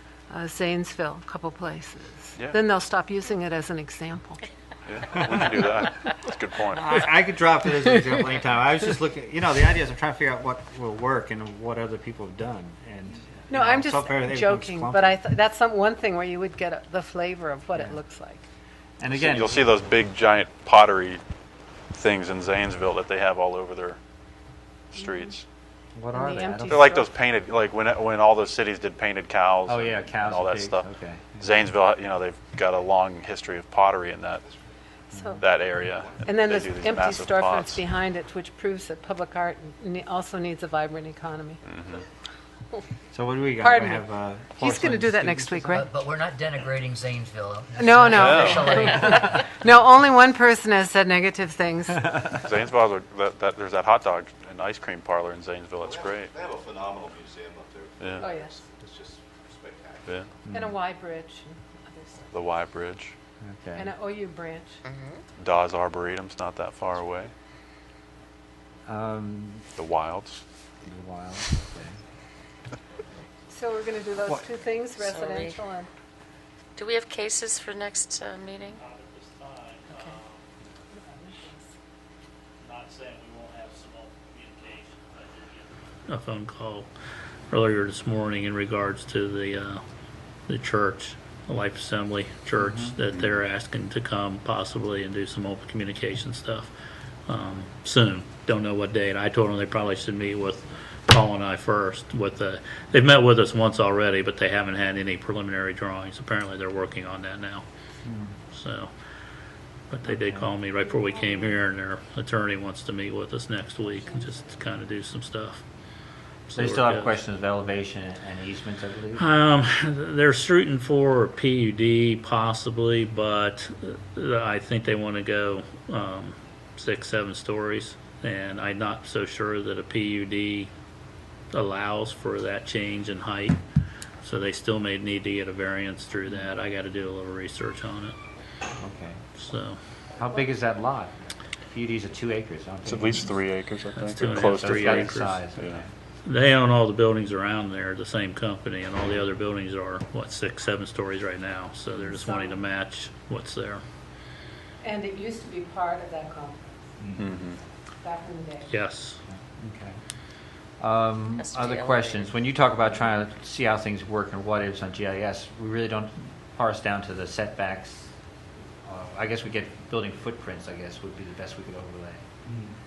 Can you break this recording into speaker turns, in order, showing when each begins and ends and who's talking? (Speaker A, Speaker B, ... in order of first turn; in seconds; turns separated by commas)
Speaker A: 0.3-4.5, Speaker B: 4.9-7.1, Speaker C: 6.8-15.2, Speaker A: 13.5-18.4, Speaker C: 19.0-20.1, Speaker B: 19.1-21.2, Speaker B: 21.9-24.0, Speaker B: 24.9-25.4, Speaker C: 25.9-26.8, Speaker A: 26.1-27.1, Speaker B: 26.7-30.9, Speaker C: 29.7-31.5, Speaker B: 31.4-34.5, Speaker A: 35.1-35.4, Speaker C: 35.1-35.4, Speaker B: 35.4-37.8, Speaker A: 36.2-41.6, Speaker B: 41.7-42.0, Speaker C: 43.1-45.9, Speaker A: 43.6-45.9, Speaker D: 45.8-49.4, Speaker A: 47.8-52.4, Speaker B: 48.2-48.7, Speaker B: 52.4-56.4, Speaker E: 56.5-59.9, Speaker B: 58.0-58.3, Speaker A: 58.2-58.6, Speaker C: 60.5-60.8, Speaker A: 60.5-62.4, Speaker B: 62.3-63.2, Speaker C: 63.4-63.9, Speaker A: 63.8-64.8, Speaker D: 64.9-65.1, Speaker B: 65.4-67.3, Speaker C: 68.9-69.7, Speaker B: 69.8-70.4, Speaker C: 70.8-72.0, Speaker A: 73.5-75.9, Speaker D: 75.0-75.5, Speaker F: 76.8-78.7, Speaker G: 78.7-80.5, Speaker A: 81.1-81.6, Speaker G: 82.6-86.9, Speaker G: 87.5-89.8, Speaker G: 90.5-96.7, Speaker C: 92.6-92.9, Speaker B: 93.1-93.4, Speaker G: 97.3-107.6, Speaker C: 108.0-108.4, Speaker G: 108.5-108.9, Speaker G: 109.9-115.6, Speaker C: 110.1-110.5, Speaker G: 116.5-117.2, Speaker C: 116.6-119.3, Speaker G: 119.2-130.7, Speaker G: 131.5-133.6, Speaker G: 134.2-138.2, Speaker C: 138.8-139.2, Speaker G: 139.4-139.8, Speaker C: 140.2-143.3, Speaker B: 142.9-145.8, Speaker G: 144.0-145.4, Speaker C: 144.4-145.9, Speaker G: 146.2-153.8, Speaker A: 152.1-152.6, Speaker A: 154.8-156.8, Speaker B: 157.2-157.6, Speaker A: 158.0-158.7, Speaker G: 158.7-159.2, Speaker C: 159.6-160.0, Speaker C: 160.8-168.1, Speaker F: 161.5-162.0, Speaker C: 168.8-172.3